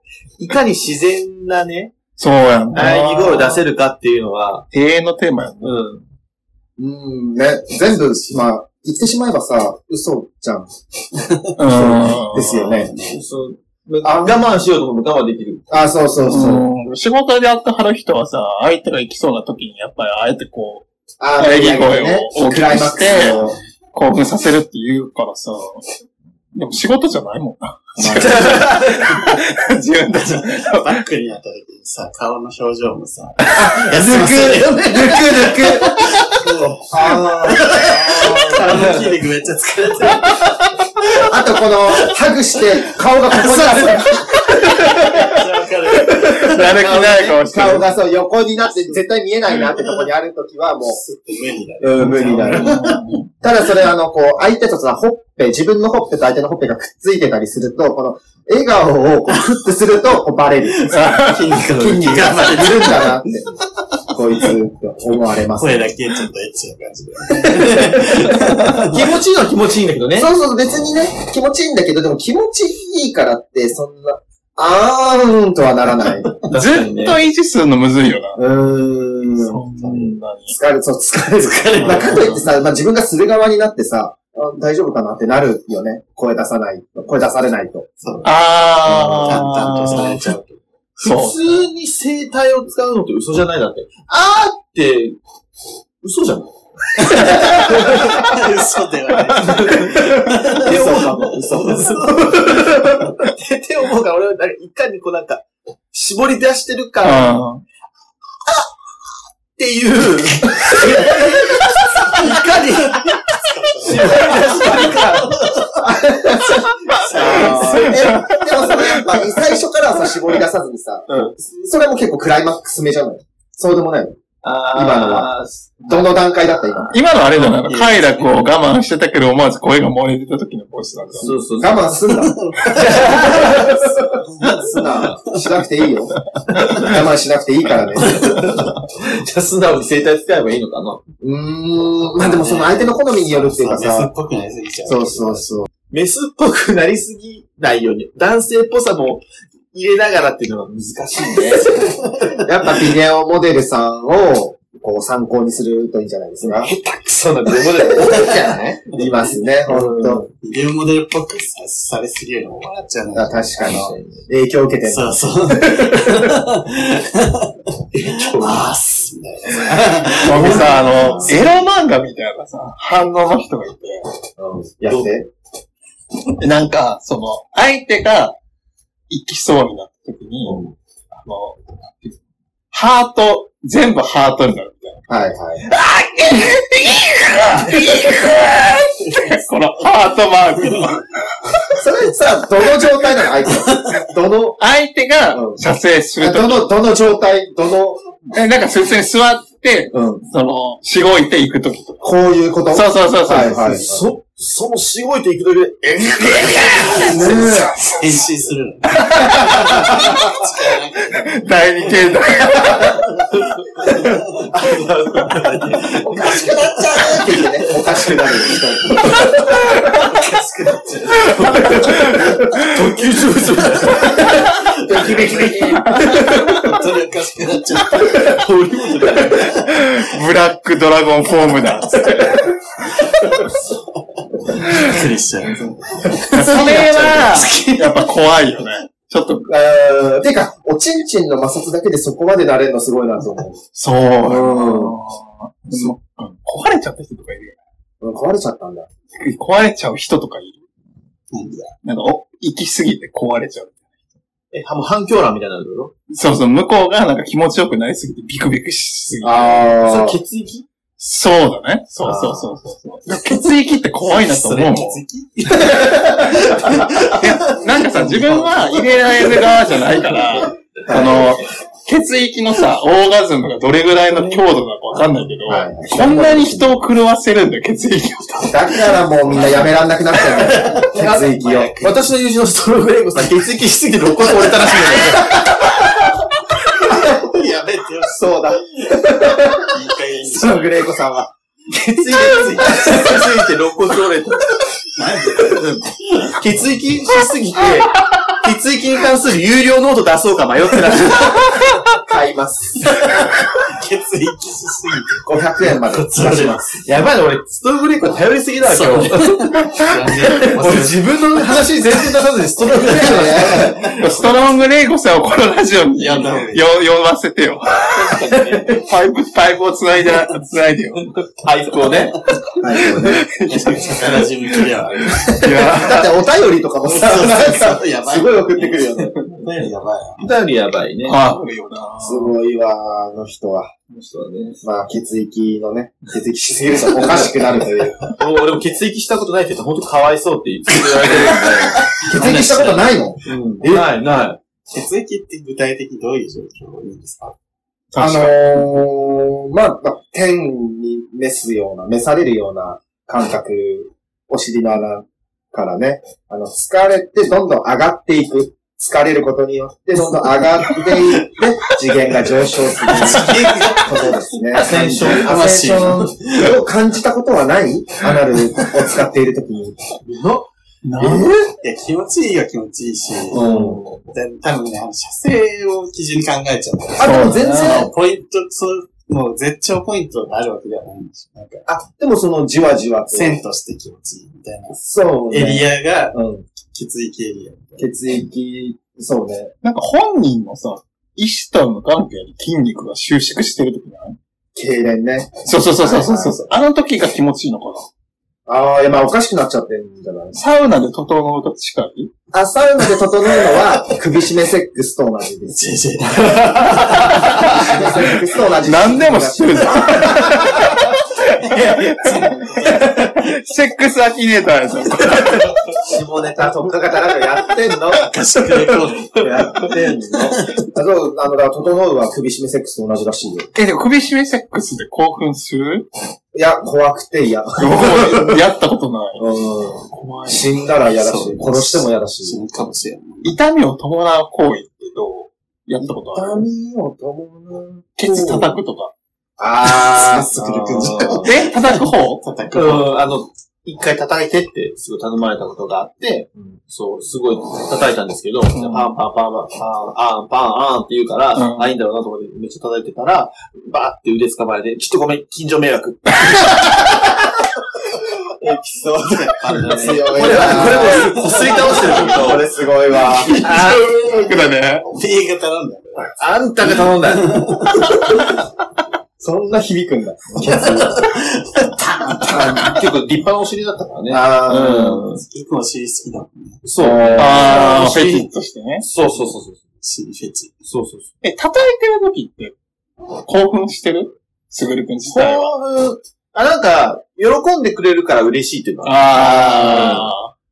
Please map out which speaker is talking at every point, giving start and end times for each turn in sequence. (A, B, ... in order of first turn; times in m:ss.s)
0:00.4-0:01.9 A
0:02.2-0:03.6 B
0:02.7-0:04.7 A
0:04.7-0:05.8 B
0:05.6-0:06.0 A
0:06.8-0:10.7 C
0:07.8-0:08.5 D
0:11.2-0:13.2 D
0:11.6-0:12.5 B
0:11.6-0:12.9 C
0:13.0-0:16.0 A
0:14.0-0:14.5 C
0:15.7-0:16.6 C
0:16.2-0:20.9 B
0:21.2-0:23.6 C
0:21.4-0:23.4 B
0:23.0-0:23.6 D
0:23.9-0:25.9 B
0:26.5-0:31.0 B
0:28.0-0:28.3 C
0:28.0-0:29.3 A
0:30.2-0:42.1 D
0:33.6-0:34.6 C
0:33.7-0:36.0 A
0:35.2-0:35.9 C
0:36.8-0:39.0 C
0:38.7-0:39.0 A
0:41.2-0:45.4 C
0:43.3-0:47.0 D
0:46.0-0:51.0 C
0:46.4-0:47.9 B
0:49.5-0:49.9 D
0:50.8-0:53.2 D
0:51.8-1:03.6 C
0:52.4-0:53.3 B
1:00.7-1:03.3 D
1:00.9-1:01.6 B
1:04.1-1:05.9 C
1:05.5-1:09.1 D
1:08.7-1:10.3 A
1:10.2-1:16.4 C
1:16.4-1:17.2 A
1:16.5-1:18.4 B
1:18.4-1:27.9 C
1:19.4-1:20.5 B
1:21.4-1:22.4 D
1:21.8-1:22.4 B
1:28.0-1:30.6 D
1:28.2-1:30.3 B
1:31.0-1:35.2 A
1:31.0-1:31.5 B
1:36.0-1:38.4 A
1:37.0-1:42.2 D
1:39.3-1:47.4 A
1:40.5-1:42.3 C
1:47.0-1:47.6 B
1:49.6-1:55.7 A
1:52.0-1:55.9 D
1:55.8-2:04.2 C
1:56.7-1:58.3 D
1:57.0-1:57.9 A
1:57.2-1:59.4 B
2:04.4-2:06.2 A
2:04.7-2:05.3 C
2:05.9-2:07.0 C
2:06.9-2:11.3 B
2:07.3-2:08.4 D
2:11.2-2:11.9 A
2:11.2-2:13.9 C
2:12.1-2:13.7 D
2:12.7-2:14.1 A
2:14.2-2:15.6 D
2:14.4-2:18.4 C
2:16.6-2:16.9 B
2:18.0-2:21.0 A
2:21.2-2:24.1 C
2:22.2-2:25.6 D
2:24.9-2:25.7 C
2:25.9-2:32.0 A
2:31.5-2:32.3 D
2:32.4-2:36.7 C
2:36.4-2:39.0 A
2:38.1-2:38.4 D
2:38.9-2:40.3 C
2:39.7-2:40.3 A
2:40.4-2:44.0 D
2:43.2-2:46.4 C
2:43.6-2:44.2 A
2:44.9-2:50.9 D
2:47.9-2:48.7 A
2:50.2-2:54.1 B
2:50.3-2:50.7 A
2:50.4-2:51.5 C
2:54.4-2:55.3 C
2:56.4-2:58.4 B
2:59.1-3:00.6 B
3:00.5-3:00.7 C
3:01.2-3:02.1 B
3:02.7-3:05.0 B
3:05.1-3:05.6 C
3:05.7-3:11.8 B
3:10.6-3:10.9 D
3:11.8-3:14.6 C
3:14.6-3:16.7 B
3:15.3-3:15.6 C
3:16.2-3:18.1 C
3:18.3-3:22.0 B
3:19.9-3:20.2 C
3:22.0-3:24.1 C
3:22.7-3:23.8 B
3:23.7-3:27.5 A
3:26.0-3:28.0 B
3:27.0-3:27.8 C
3:27.1-3:34.6 D
3:29.0-3:29.6 B
3:29.2-3:30.3 C
3:31.1-3:33.0 B
3:33.8-3:36.3 A
3:35.3-3:42.6 D
3:36.0-3:39.9 C
3:41.2-3:44.5 A
3:41.7-3:42.7 B
3:43.6-3:48.5 D
3:44.8-3:46.1 C
3:45.6-3:46.7 B
3:46.0-3:46.6 A
3:47.9-3:49.6 A
3:49.0-3:49.8 D
3:49.5-3:52.4 B
3:51.7-3:52.2 D
3:53.3-3:53.7 D
3:54.4-3:58.3 D
3:56.3-3:59.5 B
3:59.5-4:03.6 C
4:03.7-4:07.6 B
4:04.2-4:05.0 C
4:08.0-4:08.9 C
4:09.1-4:10.6 B
4:11.3-4:11.7 D
4:11.8-4:13.8 B
4:14.5-4:15.9 A
4:16.1-4:19.8 B
4:19.2-4:20.2 C
4:19.8-4:20.7 A
4:21.0-4:25.0 B
4:22.0-4:22.5 C
4:24.0-4:29.6 D
4:25.3-4:27.2 A
4:26.7-4:39.6 B
4:30.9-4:31.3 C
4:35.5-4:36.8 C
4:38.4-4:41.8 C
4:39.2-4:42.0 D
4:41.8-4:45.7 A
4:44.3-4:45.7 D
4:46.8-4:50.8 D
4:48.1-4:49.7 C
4:50.2-4:53.1 C
4:51.9-4:54.7 A
4:52.5-4:53.2 D
4:55.0-4:56.4 D
4:56.3-5:01.6 A
5:02.0-5:03.1 C
5:03.0-5:06.8 D
5:05.2-5:06.8 C
5:06.8-5:14.4 A
5:08.6-5:11.7 D
5:12.7-5:13.9 D
5:12.9-5:13.9 C
5:13.9-5:21.2 B
5:16.0-5:16.7 D
5:18.3-5:18.7 A
5:21.2-5:22.3 A
5:22.6-5:23.3 C
5:22.8-5:24.2 B
5:23.5-5:25.8 D
5:25.3-5:26.1 B
5:25.6-5:29.2 C
5:26.8-5:30.3 D
5:27.5-5:29.1 A
5:30.2-5:31.2 A
5:31.0-5:32.3 B
5:32.0-5:33.7 C
5:33.9-5:34.6 A
5:34.6-5:38.1 C
5:36.9-5:37.4 A
5:38.1-5:44.4 A
5:40.8-5:42.0 D
5:42.0-5:43.9 C
5:44.7-5:47.4 D
5:47.9-5:48.4 B
5:48.0-6:09.8 C
6:00.7-6:01.0 D
6:02.8-6:06.6 D
6:04.5-6:05.5 A
6:10.0-6:10.5 A
6:10.8-6:11.5 B
6:11.0-6:11.3 C
6:11.6-6:13.5 D
6:13.3-6:13.9 C
6:13.3-6:14.0 A
6:14.1-6:21.7 D
6:17.0-6:17.9 C
6:17.0-6:17.8 B
6:21.7-6:23.4 C
6:23.1-6:24.8 D
6:24.7-6:26.4 C
6:25.3-6:26.2 D
6:26.7-6:27.9 D
6:27.8-6:29.5 C
6:29.6-6:34.2 B
6:34.6-6:36.5 C
6:35.4-6:37.9 B
6:38.5-6:40.4 C
6:40.3-6:42.1 B
6:42.3-6:50.9 C
6:45.5-6:48.2 D
6:46.9-6:47.8 B
6:48.6-6:55.6 B
6:51.2-6:53.4 D
6:55.1-6:55.6 D
6:55.9-6:58.1 C
6:57.9-7:00.6 D
6:58.7-6:59.2 A
6:59.2-7:03.5 C
7:03.6-7:05.9 B
7:06.3-7:08.4 C
7:07.6-7:09.2 B
7:09.2-7:12.4 C
7:09.9-7:10.5 B
7:11.0-7:13.4 D
7:13.2-7:16.5 B
7:15.8-7:18.6 C
7:18.0-7:18.9 B
7:19.4-7:21.3 C
7:19.6-7:22.9 D
7:21.2-7:22.2 B
7:22.5-7:37.2 A
7:28.5-7:29.0 B
7:31.4-7:31.7 B
7:36.3-7:36.7 B
7:38.4-7:43.5 C
7:38.4-7:42.6 A
7:39.0-7:42.4 D
7:43.1-7:44.9 B
7:43.3-7:43.8 A
7:44.3-7:47.9 D
7:46.1-7:47.8 A
7:49.2-7:51.0 C
7:50.4-7:52.8 D
7:52.2-7:55.2 A
7:54.1-7:55.0 C
7:55.0-7:56.6 D
7:56.6-7:58.3 A
7:56.8-7:57.7 C
7:57.2-7:58.8 B
7:58.8-7:59.6 A
7:59.8-8:00.5 D
8:00.7-8:01.1 A
8:01.2-8:02.6 B
8:03.2-8:05.5 B
8:05.1-8:10.1 A
8:08.8-8:10.3 B
8:09.1-8:10.1 C